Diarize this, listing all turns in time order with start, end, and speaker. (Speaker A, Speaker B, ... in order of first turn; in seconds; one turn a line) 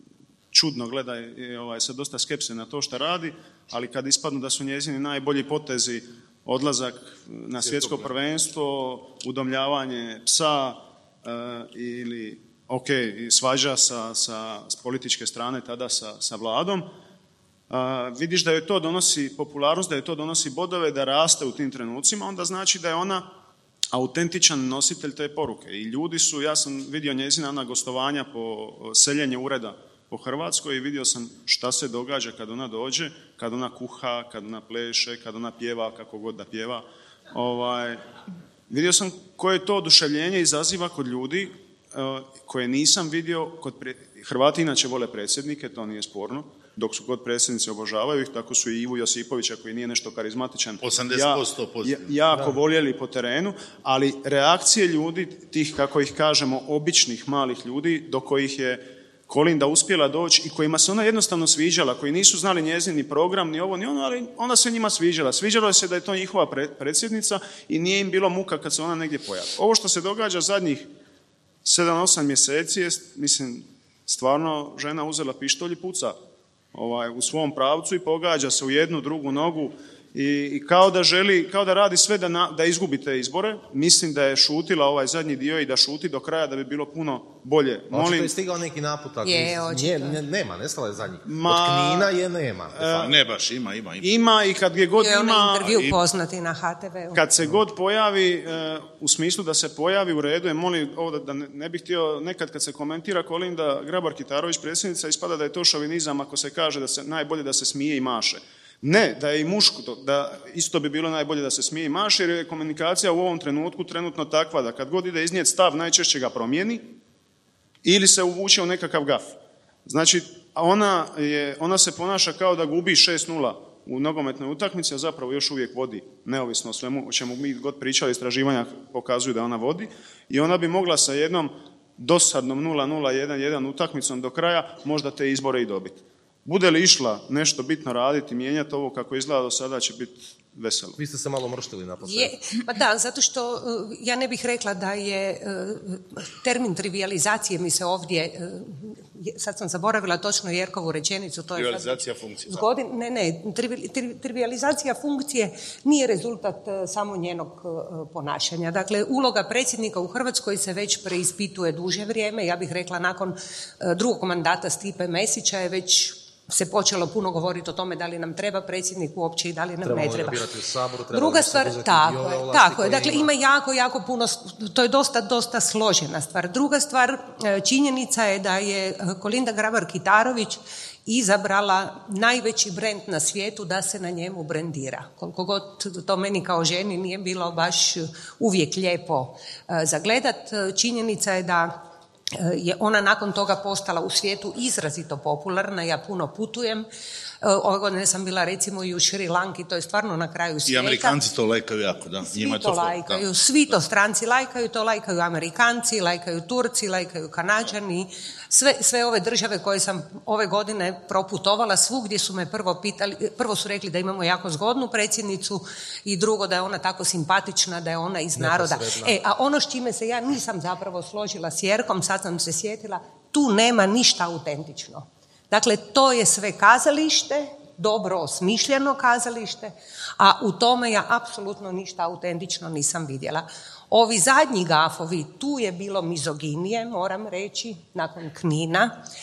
Speaker A: 0.5-16.9
Speaker B: 7.6-8.1
Speaker A: 17.7-23.2
Speaker A: 23.9-38.0
Speaker A: 38.7-70.9
Speaker B: 50.8-52.4
Speaker A: 71.6-76.2
Speaker A: 76.7-88.3
Speaker C: 87.9-92.8
Speaker D: 89.2-90.2
Speaker A: 91.2-92.1
Speaker A: 92.8-93.1
Speaker B: 92.8-94.1
Speaker A: 94.0-95.7
Speaker D: 95.0-97.2
Speaker B: 95.6-96.0
Speaker A: 97.1-116.9
Speaker A: 117.8-119.3
Speaker A: 119.8-141.0
Speaker C: 141.0-142.3
Speaker D: 142.0-170.4
Speaker B: 151.6-152.6
Speaker C: 169.8-173.3
Speaker D: 171.1-191.8
Speaker D: 192.3-196.9
Speaker D: 197.4-201.2
Speaker B: 200.7-203.3
Speaker D: 202.3-239.0
Speaker C: 218.4-219.2